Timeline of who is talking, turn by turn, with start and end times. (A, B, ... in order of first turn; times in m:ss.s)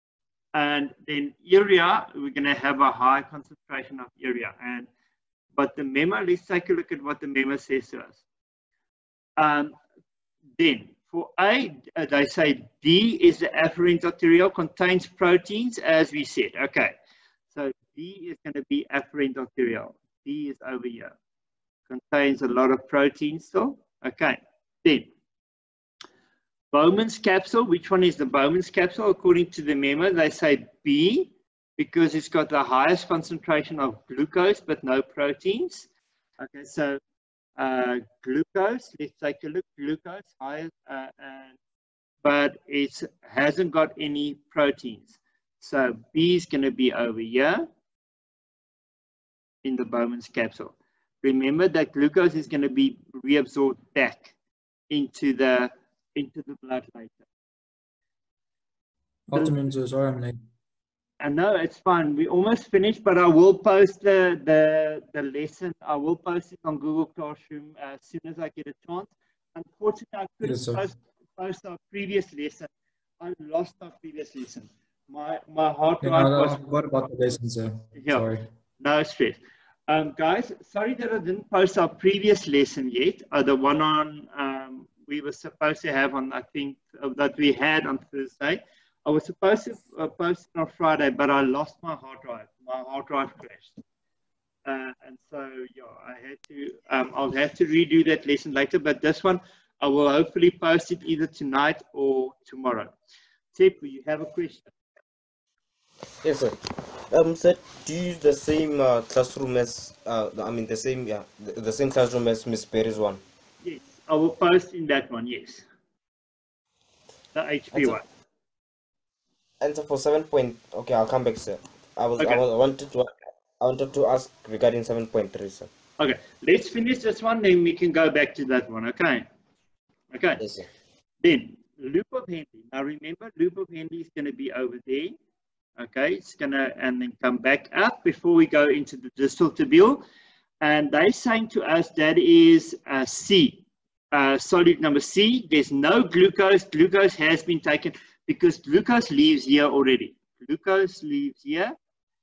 0:00.5-0:04.9 A
0:05.6-0:08.2 A
0:09.4-0:09.8 A
0:10.6-0:16.9 A
0:17.5-0:21.1 A
0:21.9-0:25.1 A
0:26.7-0:35.9 A
0:36.4-0:37.0 A
0:37.6-0:41.6 A
0:42.2-0:47.7 A
0:49.6-0:54.4 A
0:54.9-0:57.2 A
0:59.3-1:00.4 B
1:01.2-1:12.7 A
1:10.4-1:10.8 B
1:13.2-1:16.6 A
1:16.0-1:18.4 B
1:17.9-1:18.3 A
1:18.8-1:33.8 A
1:34.7-1:42.9 A
1:43.5-1:44.7 A
1:46.2-1:46.6 C
1:47.1-1:53.2 C
1:53.6-1:55.7 A
1:57.3-1:58.0 A
1:57.7-1:58.0 C
1:59.6-2:05.7 C
2:06.0-2:09.3 A
2:10.1-2:10.4 A
2:10.4-2:10.7 C
2:11.2-2:15.2 A
2:15.8-2:20.0 A
2:20.6-2:31.8 A